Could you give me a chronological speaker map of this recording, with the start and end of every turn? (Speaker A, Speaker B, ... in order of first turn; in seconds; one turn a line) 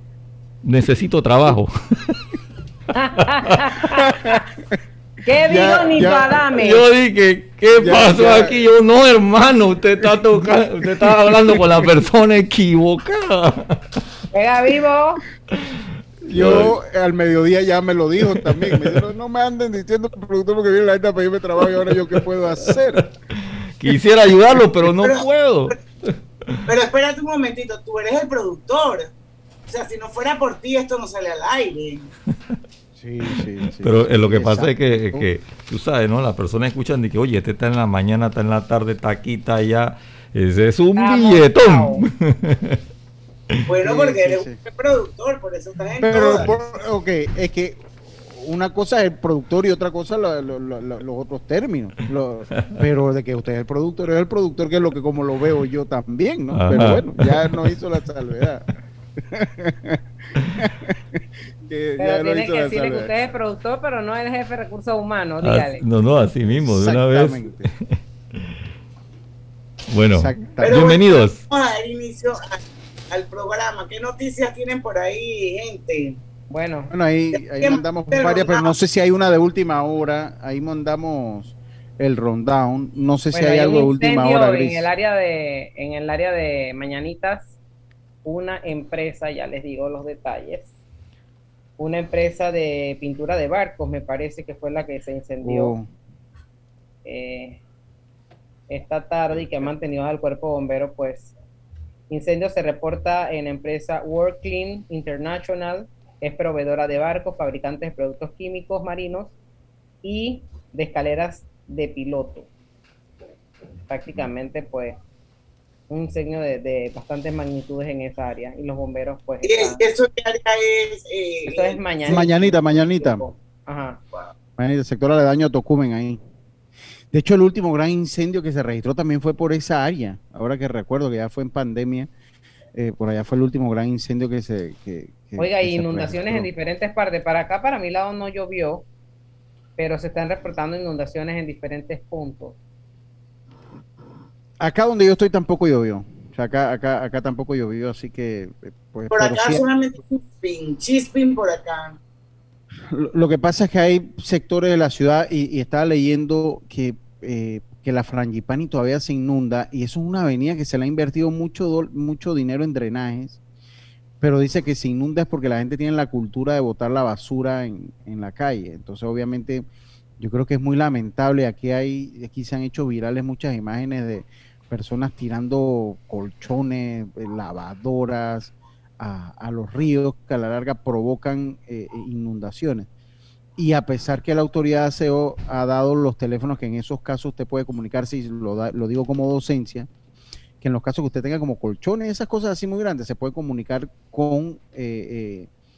Speaker A: 0.6-2.1
Speaker B: 3.0-4.1
Speaker C: 4.0-4.4
Speaker B: 5.3-6.8
Speaker C: 5.5-6.5
Speaker A: 6.6-13.8
Speaker C: 7.7-8.7
Speaker C: 10.0-12.1
Speaker B: 14.3-15.2
Speaker C: 16.3-23.1
Speaker A: 16.3-16.8
Speaker A: 18.3-19.0
Speaker A: 23.8-25.8
Speaker D: 25.0-25.8
Speaker D: 26.7-29.1
Speaker D: 29.7-32.1
Speaker C: 33.0-35.3
Speaker A: 33.8-42.8
Speaker B: 41.0-42.0
Speaker D: 43.7-46.7
Speaker C: 43.8-44.6
Speaker C: 46.0-58.7
Speaker A: 56.5-57.8
Speaker C: 59.2-60.0
Speaker C: 60.6-63.1
Speaker B: 62.0-65.8
Speaker A: 65.4-67.8
Speaker C: 66.5-67.7
Speaker A: 69.9-71.4
Speaker C: 70.1-70.8
Speaker D: 70.6-76.2
Speaker B: 76.5-76.9
Speaker C: 76.9-84.9
Speaker D: 77.4-78.7
Speaker B: 83.3-87.5
Speaker B: 88.2-90.7
Speaker B: 91.8-95.7
Speaker C: 95.4-95.9
Speaker B: 97.0-97.6
Speaker B: 98.7-101.3
Speaker B: 102.1-109.3
Speaker B: 110.0-112.5
Speaker B: 113.9-115.0
Speaker B: 115.9-119.8
Speaker D: 119.4-122.5
Speaker B: 121.5-124.0
Speaker C: 122.1-123.2
Speaker C: 124.6-126.2
Speaker C: 127.1-132.1
Speaker C: 132.8-136.5
Speaker B: 135.4-138.8
Speaker B: 139.8-142.6
Speaker C: 144.6-149.6
Speaker D: 149.1-152.0
Speaker C: 152.9-163.4
Speaker C: 164.2-169.7
Speaker C: 170.2-182.9
Speaker C: 183.6-189.9
Speaker C: 190.6-195.5